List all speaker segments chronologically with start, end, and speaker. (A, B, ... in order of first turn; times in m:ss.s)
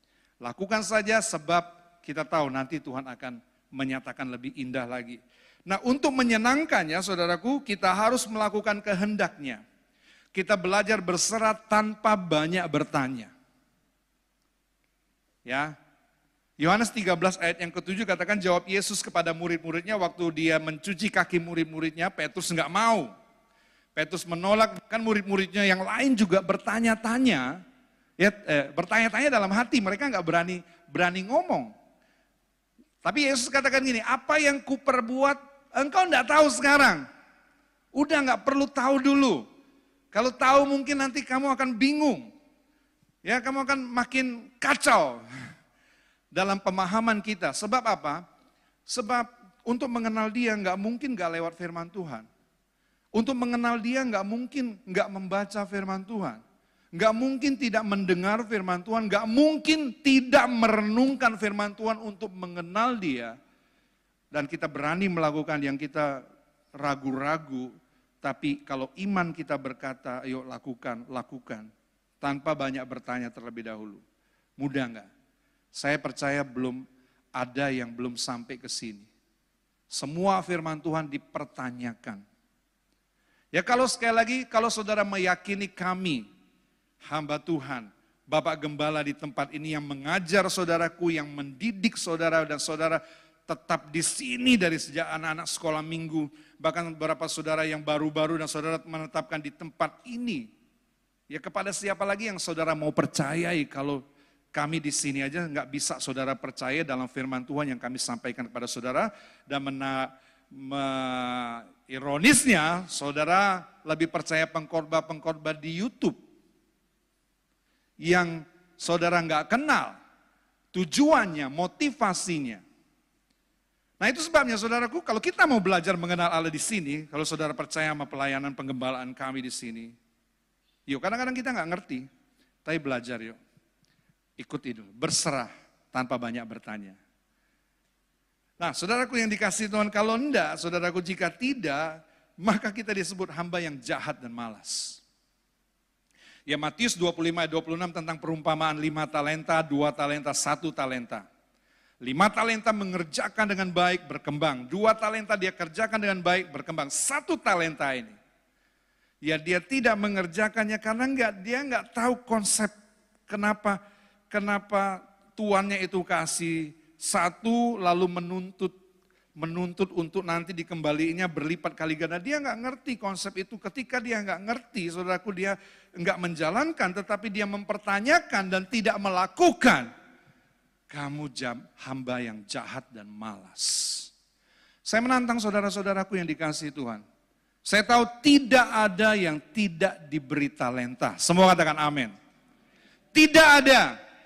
0:00.4-0:09.6 A
0:10.4-0:13.3 A
0:15.5-0:15.7 A
0:16.6-0:23.1 A
0:24.0-0:27.6 A
0:28.2-0:31.7 A
0:33.0-0:37.0 A
0:38.0-0:39.4 A
0:40.1-0:42.3 A
0:43.2-0:45.2 A
0:46.3-0:48.2 A
0:48.9-0:52.3 A
0:53.2-0:56.4 A
0:57.0-1:03.3 A
1:04.3-1:06.2 A
1:06.8-1:07.7 A
1:08.2-1:11.7 A
1:12.2-1:14.0 A
1:14.6-1:15.1 A
1:15.7-1:16.8 A
1:17.4-1:19.1 A
1:19.9-1:22.2 A
1:23.5-1:26.2 A
1:27.0-1:40.5 A
1:41.3-1:44.0 A
1:44.5-1:56.2 A
1:58.0-1:59.9 A
2:00.7-2:02.6 A
2:04.0-2:09.9 A
2:10.9-2:12.1 A
2:12.6-2:13.4 A
2:14.4-2:17.0 A
2:18.6-2:25.0 A
2:26.5-2:31.3 A
2:32.0-2:38.2 A
2:39.2-2:42.7 A
2:43.3-2:43.8 A
2:44.3-2:48.7 A
2:49.4-2:59.9 A
3:00.9-3:04.1 A
3:04.9-3:07.0 A
3:07.6-3:12.1 A
3:13.1-3:13.9 A